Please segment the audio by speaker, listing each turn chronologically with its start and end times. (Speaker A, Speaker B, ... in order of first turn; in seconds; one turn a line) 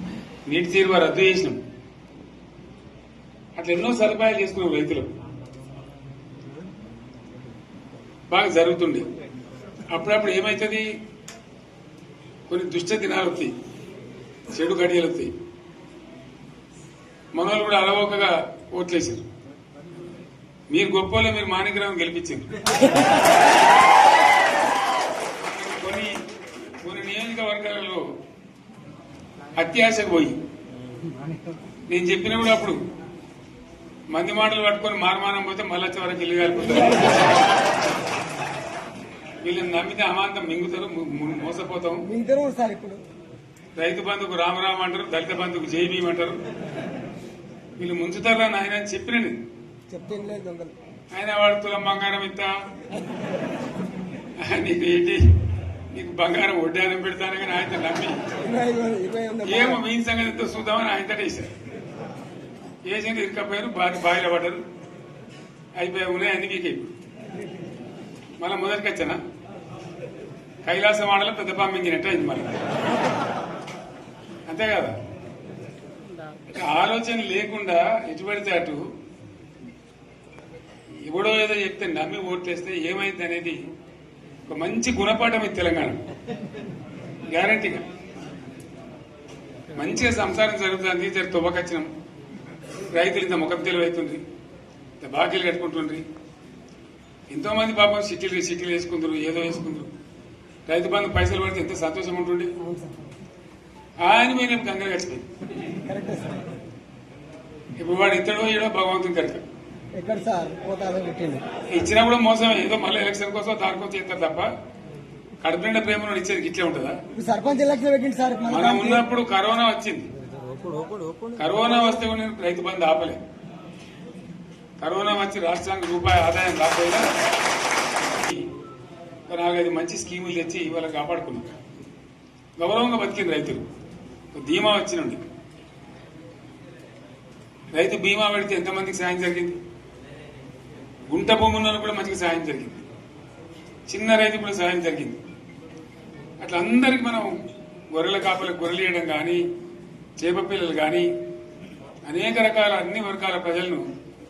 Speaker A: 0.5-1.6
Speaker A: 3.5-5.1
Speaker A: 8.3-9.1
Speaker A: 9.9-10.9
Speaker A: 12.5-13.5
Speaker A: 14.5-15.3
Speaker A: 17.3-19.2
Speaker A: 20.7-22.7
Speaker A: 25.5-26.1
Speaker A: 26.8-28.0
Speaker A: 29.6-30.4
Speaker A: 31.9-32.8
Speaker A: 34.1-37.4
Speaker A: 39.4-42.0
Speaker B: 42.0-43.0
Speaker A: 43.8-46.4
Speaker A: 47.8-49.4
Speaker B: 49.9-50.7
Speaker A: 51.1-52.5
Speaker A: 54.4-55.2
Speaker A: 55.9-58.2
Speaker B: 58.4-59.8
Speaker A: 59.4-61.5
Speaker A: 62.8-64.6
Speaker A: 65.8-66.9
Speaker A: 68.4-69.2
Speaker A: 70.7-72.5
Speaker A: 74.5-75.0
Speaker A: 76.5-78.8
Speaker A: 81.0-83.6
Speaker A: 84.5-86.0
Speaker A: 87.3-87.8
Speaker A: 89.7-91.9
Speaker A: 92.9-94.2
Speaker A: 95.0-96.0
Speaker A: 97.3-99.9
Speaker A: 100.7-102.5
Speaker B: 102.6-103.0
Speaker A: 104.0-105.2
Speaker B: 105.8-106.4
Speaker A: 107.8-109.4
Speaker B: 109.9-111.4
Speaker A: 111.7-114.5
Speaker A: 115.4-117.0
Speaker B: 117.1-119.0
Speaker A: 118.5-120.1
Speaker A: 121.3-123.2
Speaker A: 124.8-127.1
Speaker A: 128.1-128.5
Speaker A: 129.3-131.5
Speaker A: 132.6-133.7
Speaker A: 134.3-135.2
Speaker A: 137.7-139.6
Speaker A: 141.1-142.8
Speaker A: 143.9-145.2
Speaker A: 146.4-147.3
Speaker A: 147.9-149.4
Speaker A: 150.2-151.1
Speaker A: 152.1-153.9